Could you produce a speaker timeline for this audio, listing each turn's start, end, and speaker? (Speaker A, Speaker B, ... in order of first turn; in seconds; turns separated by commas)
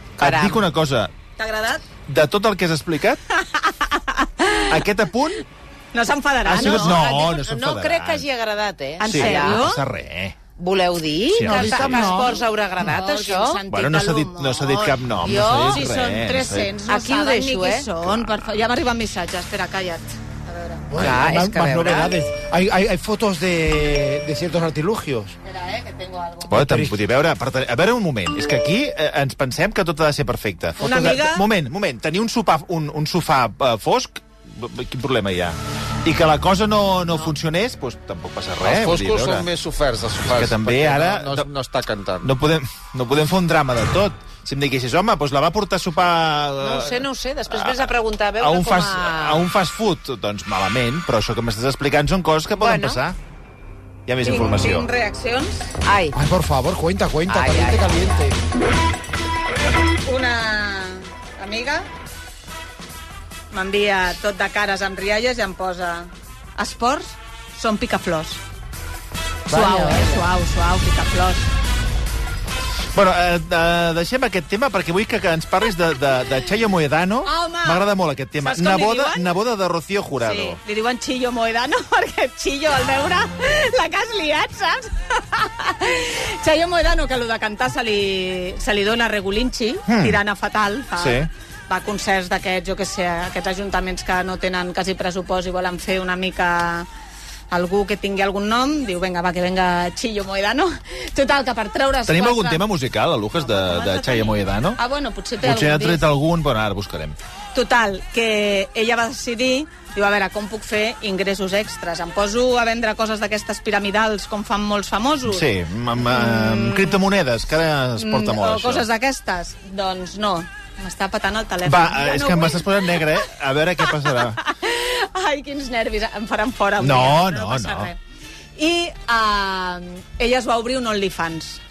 Speaker A: 0.2-0.7, Speaker B: 0.2-1.1, Speaker C: 1.4-1.8, Speaker B: 2.1-3.2, Speaker C: 3.4-4.8, Speaker B: 4.7-5.4, Speaker C: 5.9-7.0, Speaker A: 6.5-9.7, Speaker B: 6.5-8.2, Speaker C: 9.0-9.8, Speaker B: 9.1-10.4, Speaker A: 10.6-13.6, Speaker B: 11.3-12.1, Speaker D: 11.5-12.4, Speaker C: 11.6-14.7, Speaker B: 13.7-16.7, Speaker A: 14.7-15.9, Speaker C: 15.7-20.9, Speaker A: 16.9-17.9, Speaker B: 18.0-18.5, Speaker D: 20.9-25.4, Speaker A: 20.9-22.1, Speaker C: 25.4-26.6, Speaker B: 26.5-39.5, Speaker D: 26.5-27.0, Speaker C: 30.8-31.4, Speaker E: 38.6-42.3, Speaker B: 40.2-41.5, Speaker B: 42.2-53.2, Speaker A: 46.6-49.5, Speaker A: 52.6-53.0, Speaker B: 54.1-54.9, Speaker C: 54.2-55.7, Speaker A: 55.8-56.2, Speaker D: 56.1-58.4, Speaker A: 57.3-58.2, Speaker C: 60.1-61.9, Speaker C: 63.5-68.4, Speaker C: 69.5-71.5, Speaker D: 69.5-70.2, Speaker B: 72.9-80.6, Speaker C: 77.2-77.8, Speaker C: 78.4-79.3, Speaker C: 80.2-96.9, Speaker B: 89.9-90.2, Speaker B: 91.0-91.3, Speaker C: 97.5-102.6, Speaker B: 102.1-104.8, Speaker C: 103.4-106.0, Speaker B: 105.4-107.2, Speaker C: 107.5-117.0, Speaker B: 115.3-118.9, Speaker C: 118.0-123.0, Speaker B: 121.6-124.4, Speaker C: 123.8-128.0, Speaker B: 126.8-127.9, Speaker C: 128.6-131.6